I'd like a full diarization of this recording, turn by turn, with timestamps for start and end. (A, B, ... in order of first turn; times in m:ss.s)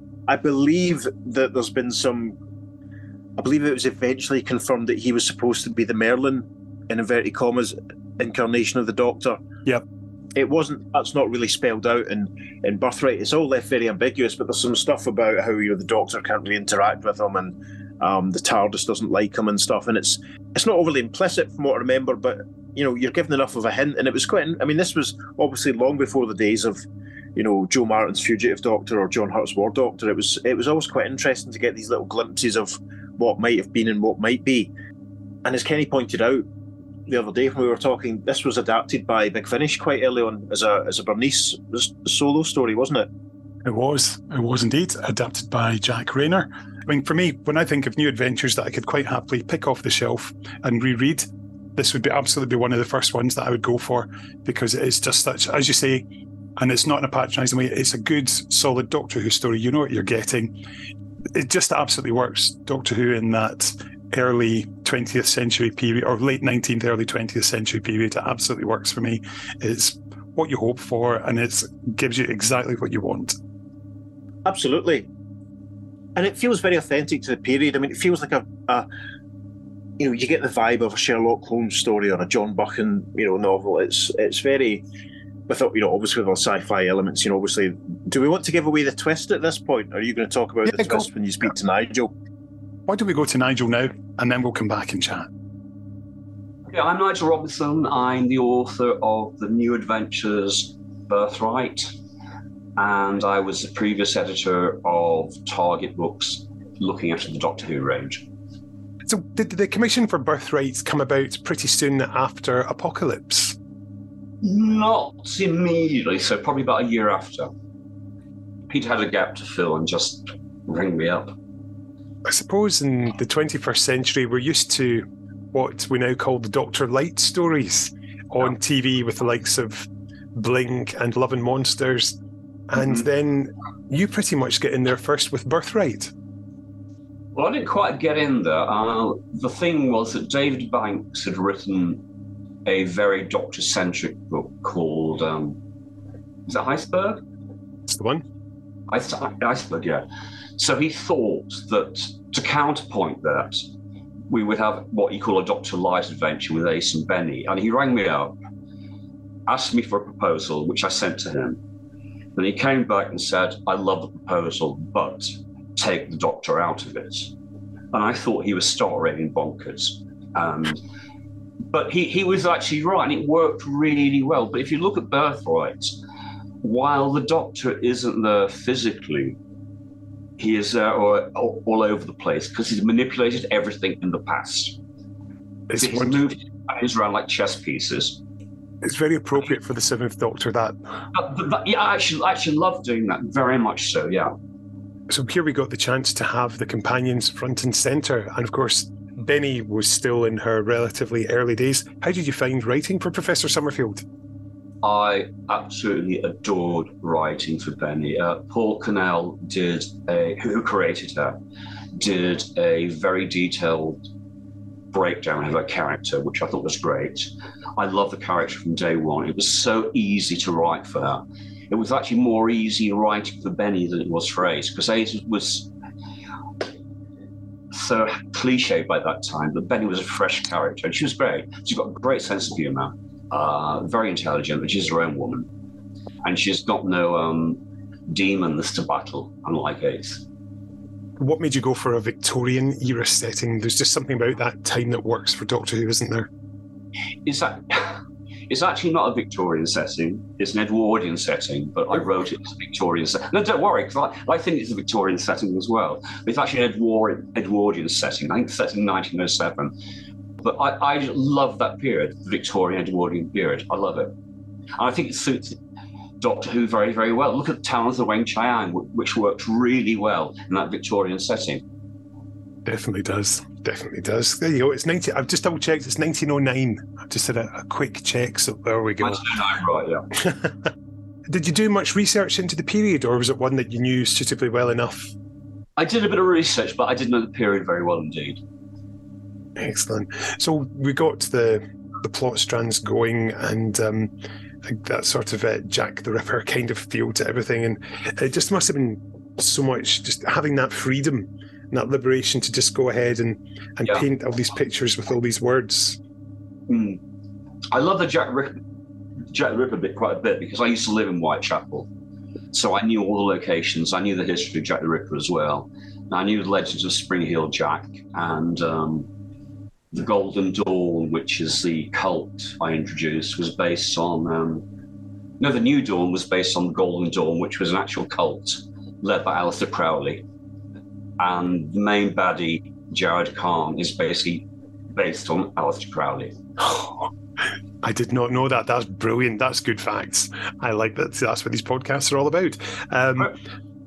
0:00.3-0:02.4 A
0:03.4-0:09.4 A
0:10.4-0:26.8 A
0:27.4-0:34.7 A
0:35.4-0:36.5 A
0:37.1-0:43.1 A
0:43.6-0:51.3 B
0:51.8-0:56.0 B
0:56.6-1:00.5 B
1:01.4-1:13.4 B
1:14.4-1:15.1 A
1:16.2-1:18.9 A
1:20.0-1:24.8 A
1:25.5-1:32.1 A
1:32.9-1:35.3 B
1:36.7-1:41.9 C
1:42.8-1:48.3 C
1:49.0-1:53.6 D
1:54.4-1:57.5 C
1:58.7-2:01.3 C
2:02.2-2:12.2 D
2:12.7-2:16.1 D
2:17.4-2:22.0 C
2:22.7-2:25.6 C
2:26.5-2:27.2 C
2:27.9-2:28.2 D
2:28.9-2:30.0 C
2:30.6-2:33.7 C
2:34.3-2:38.4 C
2:39.5-2:41.6 C
2:42.4-2:47.3 C
2:47.9-2:50.8 C
2:51.7-2:56.0 C
2:56.6-2:59.4 C
3:00.4-3:04.8 C
3:05.7-3:06.3 D
3:05.8-3:08.2 C
3:08.8-3:10.8 D
3:11.1-3:14.3 C
3:15.1-3:24.0 D
3:24.8-3:31.4 C
3:32.0-3:34.0 C
3:34.9-3:45.7 C
3:47.7-3:55.5 C
3:56.2-4:00.2 C
4:01.2-4:06.3 D
4:07.3-4:19.7 C
4:20.4-4:24.1 C
4:24.8-4:25.6 C
4:26.2-4:31.6 C
4:32.6-4:39.2 D
4:39.0-4:40.1 C
4:40.2-4:40.5 D
4:41.3-4:45.1 D
4:45.8-4:48.4 C
4:49.6-4:54.1 D
4:54.6-5:06.0 D
5:06.7-5:07.0 C
5:07.7-5:08.6 C
5:09.3-5:11.9 C
5:12.5-5:19.1 C
5:19.9-5:24.6 C
5:25.4-5:30.2 C
5:31.2-5:36.4 C
5:36.6-5:37.1 D
5:37.8-5:43.4 D